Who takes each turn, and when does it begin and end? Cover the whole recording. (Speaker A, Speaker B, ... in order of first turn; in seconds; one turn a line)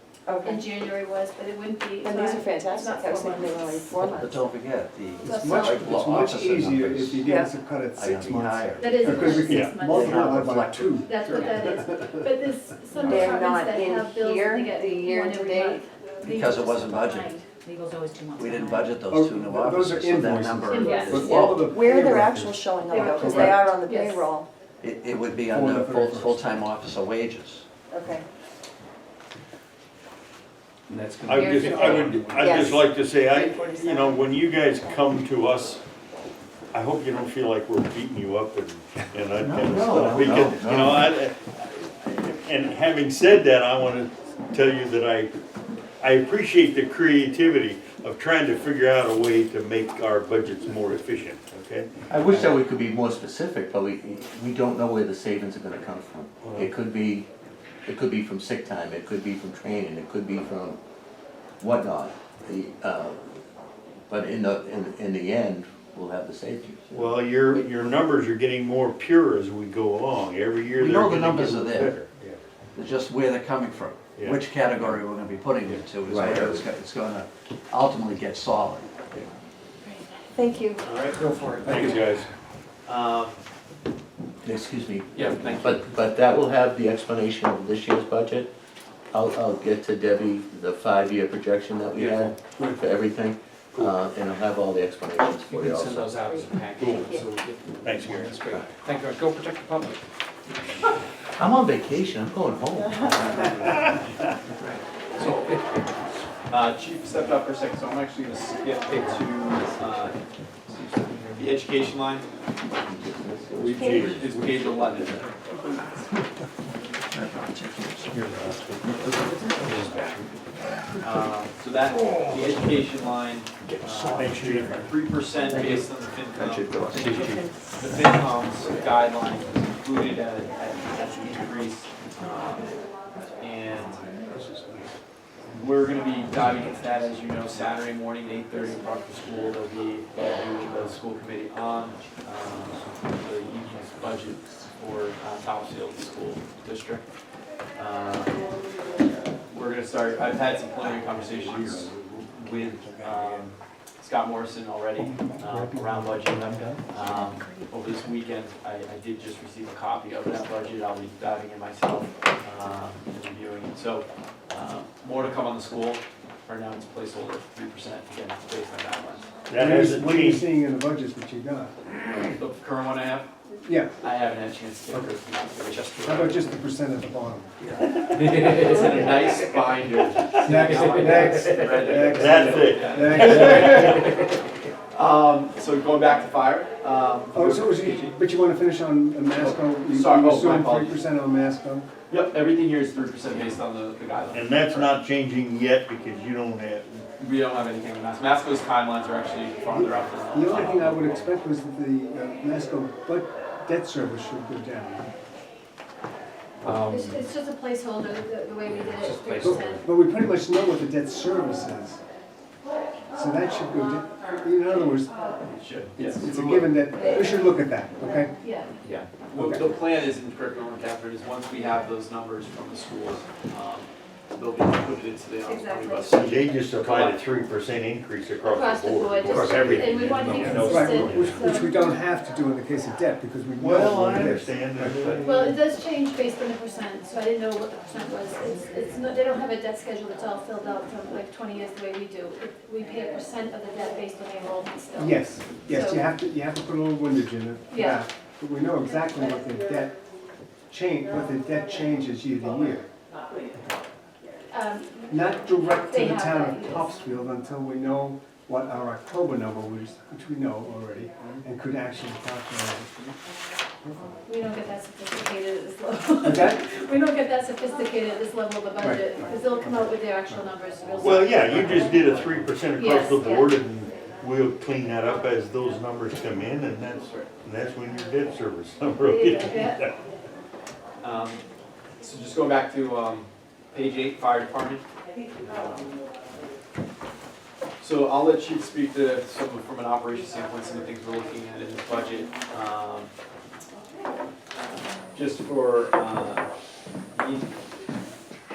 Speaker A: 0.3-0.7
Speaker B: 0.4-3.9
Speaker A: 2.0-4.4
Speaker C: 3.9-7.3
Speaker B: 5.2-5.9
Speaker D: 5.3-11.8
Speaker A: 7.2-7.5
Speaker C: 7.9-11.0
Speaker B: 8.8-10.2
Speaker E: 9.4-9.8
Speaker B: 11.0-17.4
Speaker F: 11.3-11.7
Speaker A: 13.0-15.8
Speaker C: 16.2-17.4
Speaker F: 16.4-18.9
Speaker C: 18.3-21.7
Speaker D: 19.1-23.6
Speaker B: 20.7-21.5
Speaker A: 21.7-24.5
Speaker B: 22.9-24.3
Speaker C: 23.2-23.5
Speaker C: 24.8-27.6
Speaker D: 25.4-26.6
Speaker A: 27.9-28.2
Speaker G: 30.9-32.7
Speaker E: 31.2-35.8
Speaker A: 31.4-32.8
Speaker A: 33.7-34.1
Speaker E: 36.7-45.3
Speaker H: 39.4-41.1
Speaker E: 46.0-52.6
Speaker H: 52.1-57.3
Speaker E: 56.4-56.7
Speaker H: 57.9-60.8
Speaker H: 61.6-63.2
Speaker H: 64.1-67.2
Speaker E: 66.9-72.4
Speaker C: 70.8-71.9
Speaker C: 72.7-78.9
Speaker E: 74.1-75.0
Speaker E: 75.6-76.1
Speaker H: 76.1-76.7
Speaker A: 80.3-80.8
Speaker G: 80.8-82.1
Speaker E: 81.6-82.3
Speaker G: 82.8-83.4
Speaker H: 84.4-88.5
Speaker G: 85.1-86.1
Speaker H: 89.1-96.2
Speaker G: 91.9-92.3
Speaker G: 95.4-99.9
Speaker F: 96.7-97.1
Speaker E: 96.8-97.2
Speaker E: 97.8-98.4
Speaker H: 101.4-103.9
Speaker A: 102.9-103.2
Speaker G: 105.2-105.5
Speaker G: 106.5-110.1
Speaker G: 111.3-112.3
Speaker H: 112.7-114.2
Speaker E: 113.6-114.8
Speaker G: 113.8-115.3
Speaker A: 115.5-115.8
Speaker C: 117.1-119.8
Speaker F: 119.4-119.9
Speaker E: 119.6-120.2
Speaker G: 121.0-132.7
Speaker C: 123.8-124.6
Speaker E: 124.1-124.9
Speaker C: 125.5-127.4
Speaker G: 133.4-134.1
Speaker D: 134.3-134.8
Speaker G: 135.5-147.1
Speaker G: 147.8-148.4
Speaker G: 149.5-169.3
Speaker D: 155.0-156.8
Speaker F: 157.0-157.7
Speaker E: 169.5-170.5
Speaker D: 169.5-171.7
Speaker G: 172.3-173.3
Speaker D: 173.6-173.9
Speaker G: 174.0-176.4
Speaker C: 175.7-176.2
Speaker D: 176.0-177.6
Speaker E: 177.9-178.8
Speaker G: 178.1-184.4
Speaker E: 180.0-180.3
Speaker D: 180.4-184.1
Speaker E: 181.6-184.1
Speaker G: 184.9-188.1
Speaker D: 187.3-191.9
Speaker G: 189.4-191.0
Speaker G: 192.1-194.9
Speaker E: 194.3-197.0
Speaker G: 197.2-201.3
Speaker D: 199.7-205.1
Speaker G: 206.6-207.2
Speaker B: 206.9-209.8
Speaker G: 209.0-209.5
Speaker D: 209.4-212.0
Speaker D: 213.1-215.3
Speaker G: 215.4-217.0
Speaker D: 215.9-218.3
Speaker B: 217.0-217.3
Speaker B: 218.4-218.8
Speaker G: 218.8-227.3
Speaker D: 219.3-219.7
Speaker B: 225.4-226.6
Speaker E: 226.1-231.5
Speaker B: 228.4-231.9
Speaker D: 230.2-235.6
Speaker E: 233.6-235.4
Speaker B: 235.2-246.1
Speaker D: 244.9-249.9
Speaker B: 247.7-248.0
Speaker D: 250.7-252.9
Speaker B: 254.5-256.9
Speaker D: 255.1-263.1
Speaker D: 263.8-264.1
Speaker B: 264.2-272.0
Speaker D: 266.2-266.6
Speaker D: 268.8-270.4
Speaker E: 271.0-279.9
Speaker G: 271.8-272.4
Speaker B: 272.7-273.6
Speaker G: 276.9-277.3
Speaker B: 279.0-279.9
Speaker G: 281.0-281.4
Speaker G: 282.0-284.8
Speaker G: 285.4-285.9
Speaker G: 287.8-293.1
Speaker G: 295.1-296.5
Speaker G: 297.1-297.5